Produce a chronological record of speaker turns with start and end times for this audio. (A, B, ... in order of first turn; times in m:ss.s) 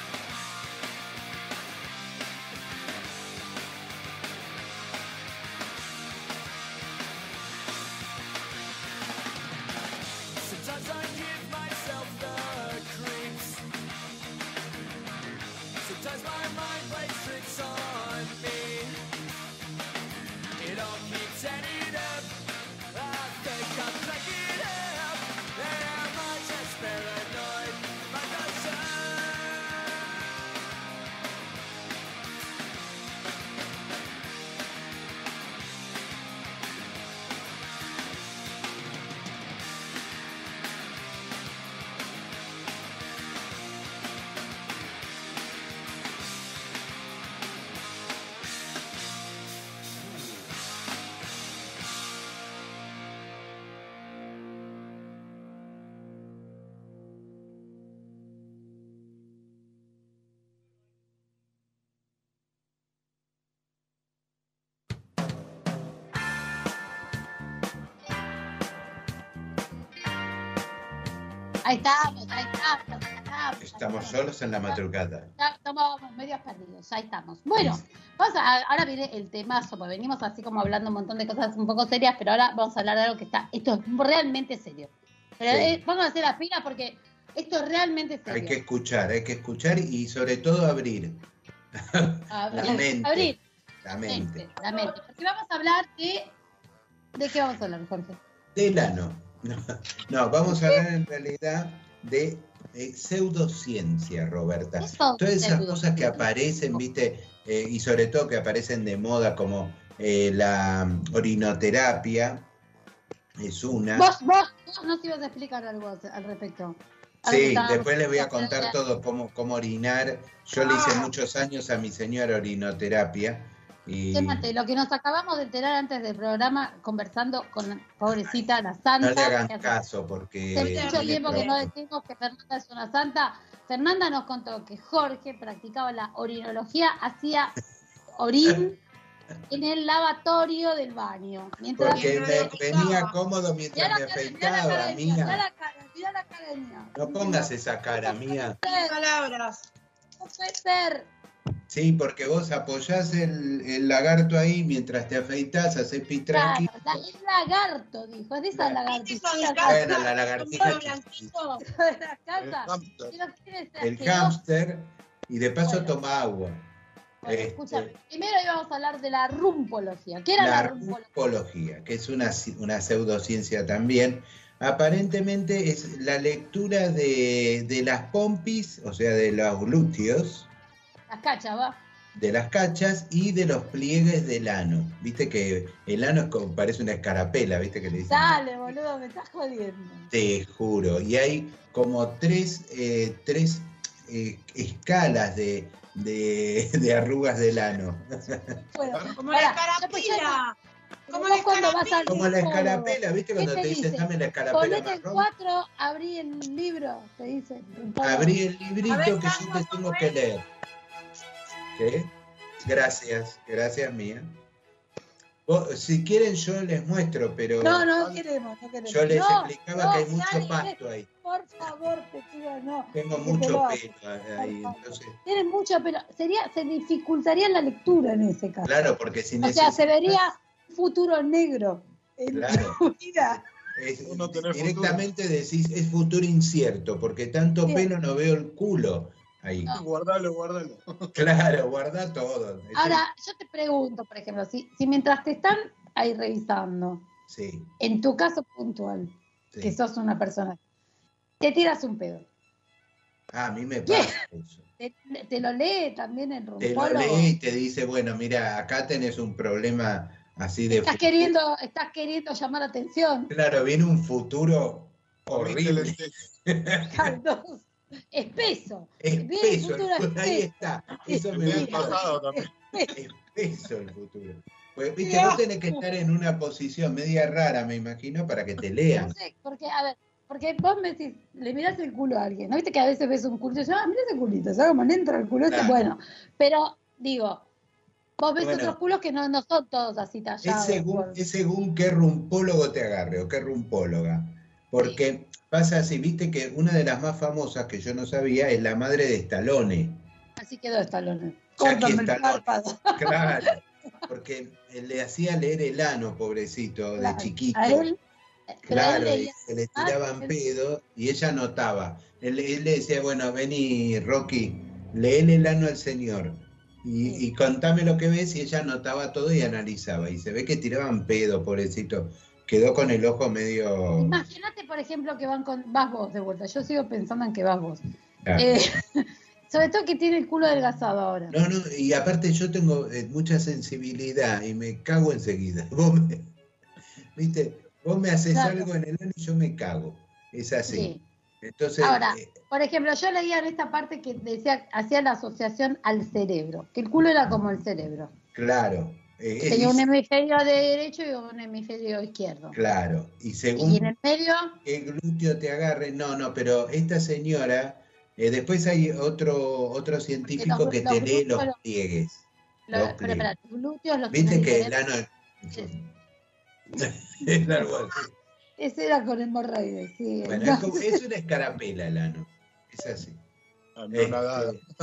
0:10.4-0:13.6 A
0:15.8-0:19.0 A
0:20.6-0:22.4 A
0:22.9-0:29.7 A
1:11.6-1:14.8 B
1:13.6-1:15.3 C
1:15.4-1:28.6 B
1:17.6-1:17.8 C
1:25.5-1:25.8 C
1:28.3-1:31.2 C
1:31.7-1:34.5 C
1:32.3-1:33.4 B
1:34.1-1:36.3 B
1:37.2-1:38.2 B
1:38.5-1:52.5 C
1:40.5-1:40.8 B
1:44.8-1:46.3 B
1:53.4-1:54.1 C
1:53.9-1:58.8 B
1:57.2-2:04.5 C
2:00.6-2:01.1 D
2:04.1-2:09.7 B
2:08.1-2:08.4 C
2:09.0-2:11.7 C
2:10.5-2:17.6 B
2:10.6-2:11.6 D
2:18.2-2:18.8 B
2:19.5-2:22.5 B
2:21.8-2:25.4 C
2:21.9-2:23.2 D
2:23.7-2:28.9 B
2:26.9-2:28.6 C
2:28.6-2:29.7 D
2:30.2-2:31.1 B
2:31.7-2:37.0 C
2:36.3-2:40.0 B
2:38.5-2:38.8 C
2:38.9-2:41.6 D
2:39.6-2:41.3 C
2:41.6-2:44.4 B
2:42.4-2:43.2 E
2:43.8-2:46.7 C
2:45.6-2:45.9 B
2:47.2-2:51.0 B
2:47.2-2:47.9 C
2:50.4-3:00.5 C
3:01.1-3:01.8 B
3:02.1-3:08.4 C
3:08.1-3:10.1 B
3:10.1-3:18.5 C
3:18.7-3:20.4 B
3:18.8-3:19.1 E
3:19.2-3:20.5 D
3:21.1-3:28.3 B
3:21.1-3:22.2 D
3:22.1-3:25.3 C
3:28.0-3:30.4 C
3:28.9-3:30.1 D
3:31.8-3:32.1 C
3:32.6-3:34.4 C
3:35.4-3:37.9 C
3:37.6-3:48.7 B
3:38.0-3:38.2 E
3:38.8-3:41.1 C
3:42.9-3:45.2 C
3:48.6-3:50.2 C
3:49.4-3:53.4 B
3:52.3-3:59.8 C
3:54.0-3:55.0 E
3:59.7-4:01.2 E
4:01.1-4:03.0 C
4:02.7-4:07.0 B
4:07.3-4:07.7 C
4:07.8-4:10.6 B
4:09.5-4:09.8 C
4:11.4-4:12.2 B
4:13.3-4:14.7 C
4:13.9-4:14.2 B
4:14.8-4:17.3 B
4:16.6-4:21.3 C
4:20.7-4:23.3 B
4:23.3-4:27.1 C
4:25.3-4:26.3 E
4:26.9-4:30.5 B
4:29.0-4:32.0 C
4:31.0-4:32.9 B
4:31.3-4:32.6 E
4:32.9-4:39.2 C
4:35.0-4:35.4 D
4:38.9-4:47.4 B
4:45.5-4:45.9 C
4:48.2-4:51.2 B
4:48.4-4:48.8 C
4:50.4-5:00.0 C
5:00.4-5:03.4 B
5:01.6-5:07.9 C
5:07.0-5:08.0 B
5:08.5-5:10.3 B
5:08.7-5:24.2 C
5:24.0-5:27.8 B
5:28.2-5:28.5 C
5:28.3-5:31.3 B
5:31.3-5:36.3 C
5:37.1-5:42.4 C
5:38.3-5:38.7 B
5:40.7-5:41.0 B
5:41.8-5:48.1 B
5:48.3-5:49.8 C
5:49.4-5:52.6 B
5:52.5-5:53.9 C
5:53.6-5:54.6 B
5:54.6-6:03.3 C
6:00.2-6:01.5 B
6:02.7-6:04.8 B
6:04.1-6:05.9 C
6:06.8-6:08.1 C
6:08.6-6:11.0 B
6:10.2-6:13.2 C
6:13.8-6:14.6 E
6:13.9-6:14.6 C